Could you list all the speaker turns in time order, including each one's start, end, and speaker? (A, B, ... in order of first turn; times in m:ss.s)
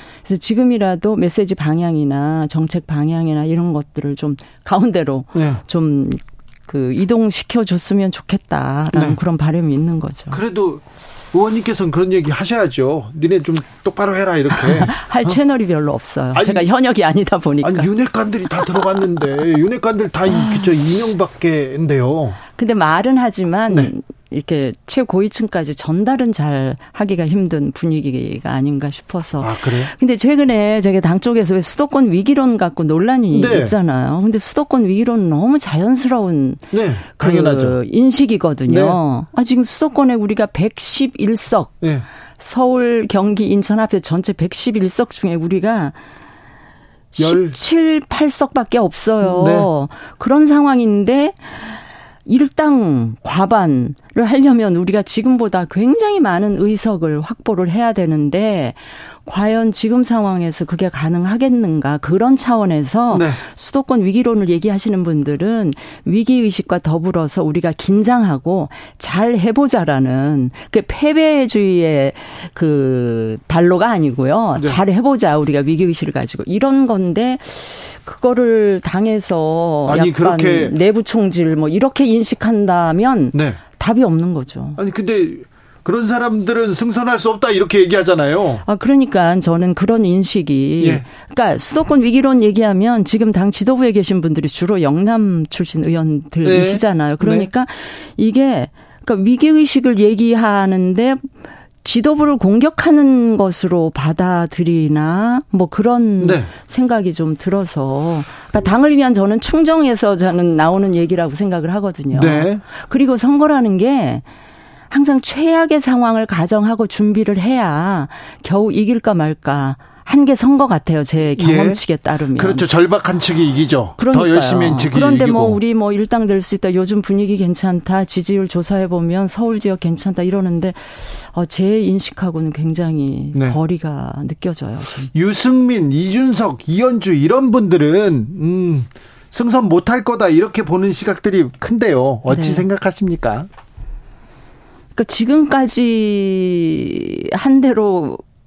0:00.2-0:10.4 A
0:05.3-0:05.6 B
0:08.9-0:09.2 B
0:10.3-0:15.4 B
0:14.5-0:17.9 A
0:16.3-0:16.7 B
0:17.6-0:22.4 B
0:18.6-0:18.9 A
0:20.3-0:20.7 A
0:22.6-0:41.7 A
0:29.4-0:29.9 B
0:33.3-0:33.8 B
0:36.7-0:37.8 B
0:38.7-0:39.0 B
0:42.4-0:46.0 A
0:47.2-1:24.8 A
0:47.2-0:47.6 B
0:49.2-0:49.7 B
1:03.1-1:03.4 B
1:19.8-1:20.7 B
1:23.3-1:23.6 B
1:24.8-1:28.6 B
1:28.6-1:41.3 A
1:30.8-1:31.0 B
1:36.4-1:37.5 B
1:41.8-1:54.2 A
1:46.2-1:46.5 B
1:52.1-1:52.6 B
1:54.9-2:02.7 A
2:01.4-2:01.8 B
2:02.4-2:05.6 B
2:04.0-2:15.1 A
2:15.1-2:23.5 B
2:22.3-2:22.6 A
2:24.9-2:28.2 A